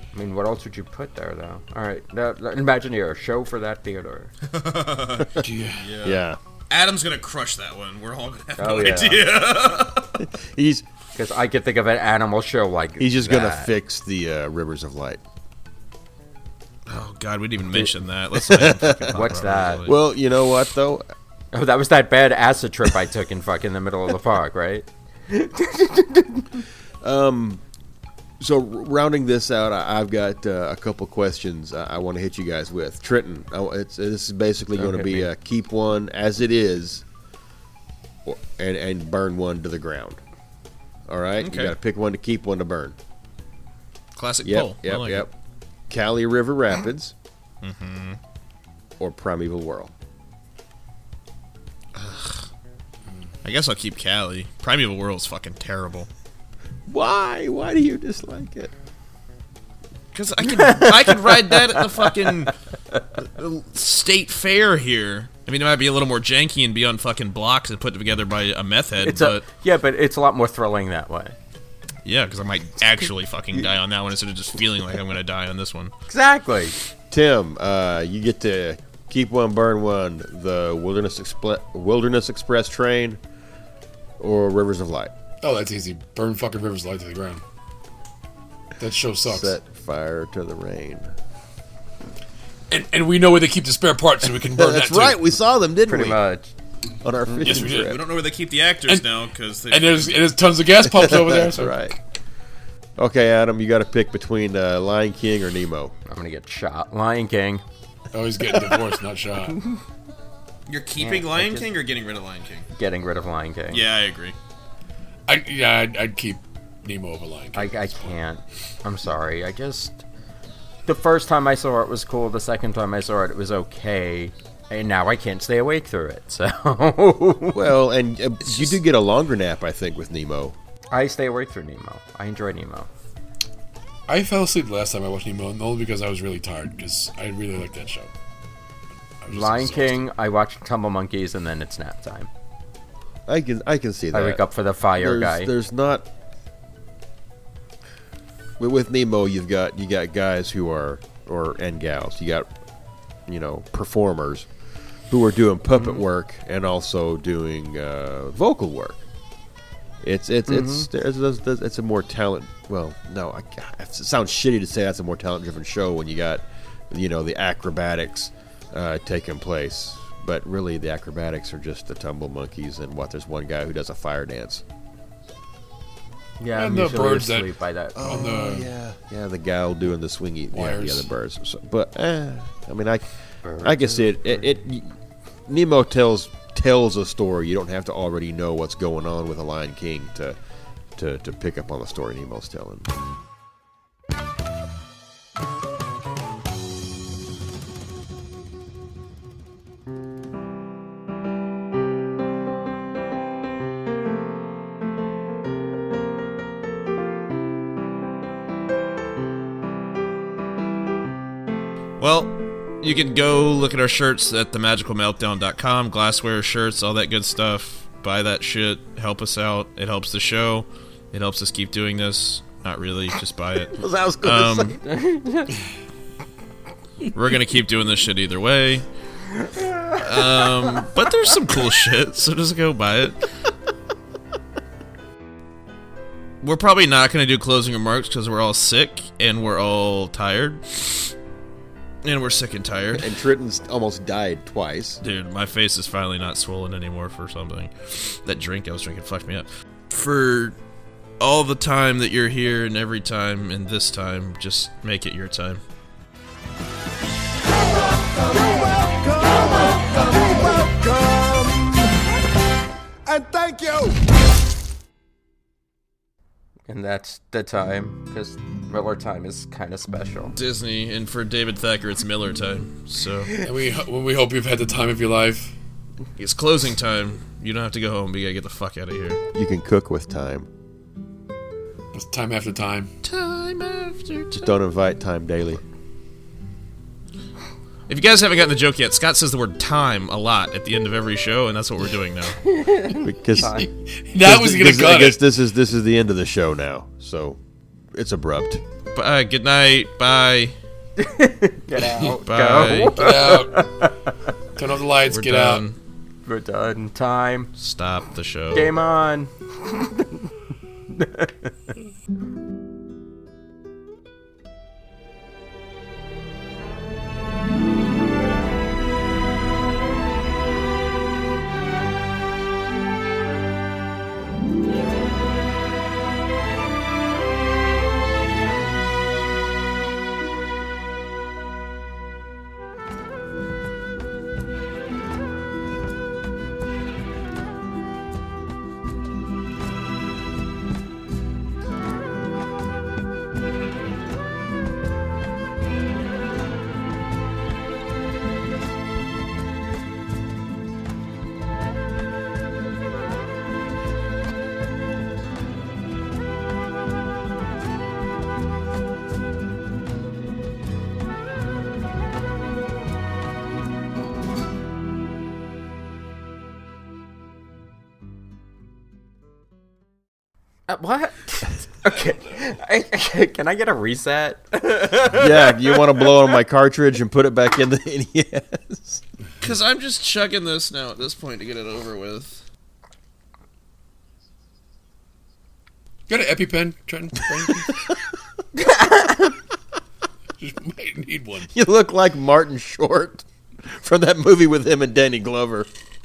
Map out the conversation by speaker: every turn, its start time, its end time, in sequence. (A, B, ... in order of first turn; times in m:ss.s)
0:00.1-0:04.3 A
0:04.4-0:10.2 B
0:05.4-0:05.9 C
0:06.0-0:06.4 D
0:08.6-0:09.3 A
0:10.2-0:10.8 D
0:11.2-0:13.7 A
0:13.0-0:15.2 D
0:16.9-0:20.0 B
0:17.7-0:19.2 D
0:19.1-0:19.9 A
0:19.8-0:21.1 D
0:21.5-0:26.6 A
0:27.0-0:27.6 D
0:28.4-0:37.0 D
0:34.8-0:35.3 A
0:38.2-0:40.2 D
0:41.1-0:43.0 D
0:41.4-0:41.8 B
0:44.2-0:45.3 B
0:44.4-0:45.3 D
0:45.9-0:47.1 D
0:47.6-0:48.2 B
0:49.0-0:49.9 D
0:51.9-0:52.5 B
0:53.4-0:56.1 B
0:56.9-0:58.7 D
1:00.1-1:02.6 B
1:00.6-1:01.5 A
1:03.2-1:09.4 B
1:09.0-1:11.4 A
1:12.0-1:15.9 B
1:16.1-1:16.7 A
1:17.1-1:23.2 D
1:24.2-1:25.1 D
1:25.4-1:27.4 C
1:28.8-1:29.6 C
1:29.2-1:31.1 D
1:32.7-1:35.2 C
1:34.4-1:36.2 D
1:35.9-1:36.5 A
1:37.0-1:38.0 D
1:37.4-1:38.0 C
1:37.7-1:40.3 B
1:39.7-1:41.9 C
1:40.8-1:42.0 D
1:43.0-1:46.0 D
1:46.1-1:47.6 A
1:48.1-1:49.6 C
1:50.7-1:52.7 B
1:51.0-1:51.7 A
1:52.7-1:53.8 A
1:53.7-1:54.4 B
1:55.3-1:58.1 C
1:57.5-2:00.0 A
2:00.9-2:07.6 A
2:07.5-2:10.6 D
2:08.5-2:08.7 B
2:10.9-2:12.9 A
2:14.1-2:18.1 C
2:19.2-2:20.0 C
2:19.3-2:22.3 A
2:23.3-2:24.4 D
2:24.1-2:25.5 A
2:25.0-2:26.1 D
2:28.6-2:32.5 D
2:33.3-2:34.5 D
2:35.1-2:39.0 D
2:40.0-2:54.6 D
2:40.5-2:40.9 A
2:56.4-2:58.3 A
2:56.5-2:58.7 C
2:58.0-3:03.0 D
3:00.5-3:01.1 C
3:03.4-3:04.5 A
3:03.6-3:05.0 D
3:05.5-3:10.4 D
3:11.0-3:12.9 D
3:32.0-3:44.8 B
3:43.8-3:44.6 D
3:44.6-3:45.6 A
3:47.1-3:48.9 B
3:50.0-3:53.3 B
3:56.4-4:01.1 B
4:02.0-4:03.1 B
4:03.0-4:05.0 D
4:05.0-4:10.6 B
4:11.2-4:15.6 B
4:20.7-4:21.4 D
4:23.3-4:23.6 D
4:26.7-4:30.3 A
4:30.3-4:33.3 B
4:33.4-4:35.5 C
4:36.2-4:39.2 B
4:39.4-4:40.5 D
4:41.9-4:42.9 C
4:43.0-4:44.5 B
4:44.3-4:45.6 D
4:47.9-4:52.4 B
4:52.5-4:53.7 A
4:53.0-4:53.6 D
4:53.6-4:55.2 C
4:54.2-4:57.4 D
4:57.9-4:58.6 D
4:58.9-5:00.6 B
5:01.0-5:04.0 A
5:02.3-5:03.0 B
5:02.9-5:03.7 C
5:04.6-5:05.7 C
5:05.1-5:05.8 B
5:06.3-5:07.5 A
5:07.6-5:08.8 B
5:08.5-5:10.0 A
5:10.9-5:11.5 A
6:10.7-6:16.2 A
6:15.1-6:19.0 D
6:19.4-6:22.4 B
6:26.1-6:27.8 C
6:28.6-6:29.4 A
6:30.4-6:31.5 C
6:31.5-6:35.7 D